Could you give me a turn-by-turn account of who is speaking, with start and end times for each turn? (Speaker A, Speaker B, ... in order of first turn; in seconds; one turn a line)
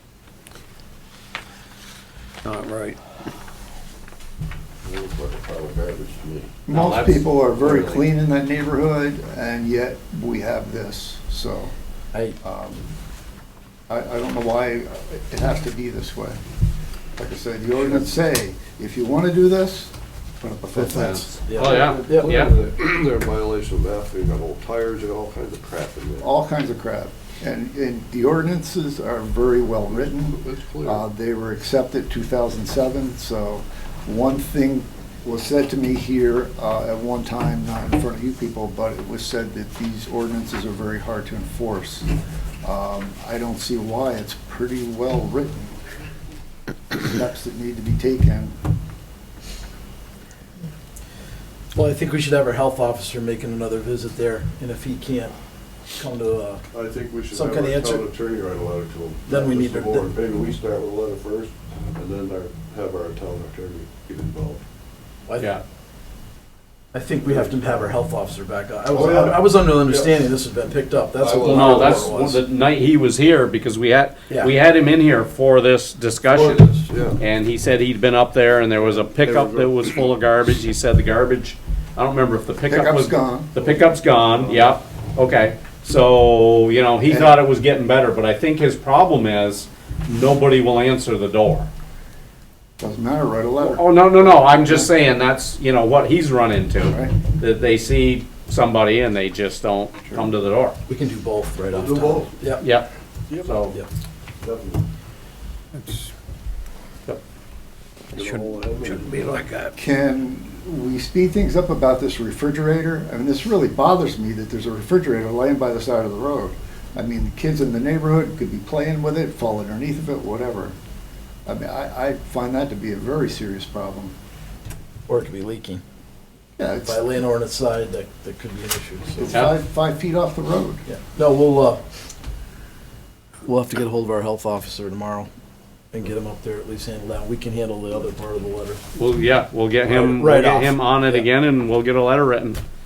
Speaker A: 2.4-3.0
Speaker B: 4.8-6.6
Speaker C: 6.7-11.7
Speaker D: 6.7-7.4
Speaker B: 7.6-8.1
Speaker E: 12.1-12.4
Speaker C: 12.4-12.8
Speaker C: 13.9-16.4
Speaker C: 17.2-21.4
Speaker E: 20.8-22.4
Speaker D: 20.9-22.5
Speaker B: 21.6-26.3
Speaker C: 26.2-42.1
Speaker B: 29.9-31.0
Speaker C: 42.6-45.8
Speaker C: 46.9-48.5
Speaker E: 51.7-55.3
Speaker E: 55.9-56.6
Speaker B: 56.7-64.6
Speaker E: 57.3-58.1
Speaker E: 59.3-60.1
Speaker E: 65.3-65.6
Speaker E: 66.9-72.4
Speaker B: 67.2-67.9
Speaker B: 68.9-70.1
Speaker B: 71.2-72.3
Speaker D: 71.4-91.7
Speaker B: 76.3-77.2
Speaker B: 78.8-80.0
Speaker C: 82.7-83.5
Speaker B: 83.6-84.8
Speaker C: 87.0-87.4
Speaker C: 92.8-94.9
Speaker D: 93.6-100.8
Speaker C: 96.8-97.2
Speaker E: 100.9-102.6
Speaker B: 101.7-102.3
Speaker D: 102.6-102.9
Speaker B: 103.3-103.7
Speaker D: 103.4-103.7
Speaker B: 104.4-104.8
Speaker A: 105.8-106.1
Speaker A: 108.1-109.7
Speaker B: 108.1-109.4
Speaker C: 109.8-120.8
Speaker C: 121.5-124.1
Speaker E: 125.1-125.8
Speaker C: 126.6-127.0
Speaker E: 126.8-129.5
Speaker C: 129.2-130.8
Speaker D: 129.3-129.6
Speaker E: 130.9-131.8
Speaker E: 133.4-135.3
Speaker E: 135.9-138.8
Speaker D: 138.9-142.6
Speaker E: 139.9-141.3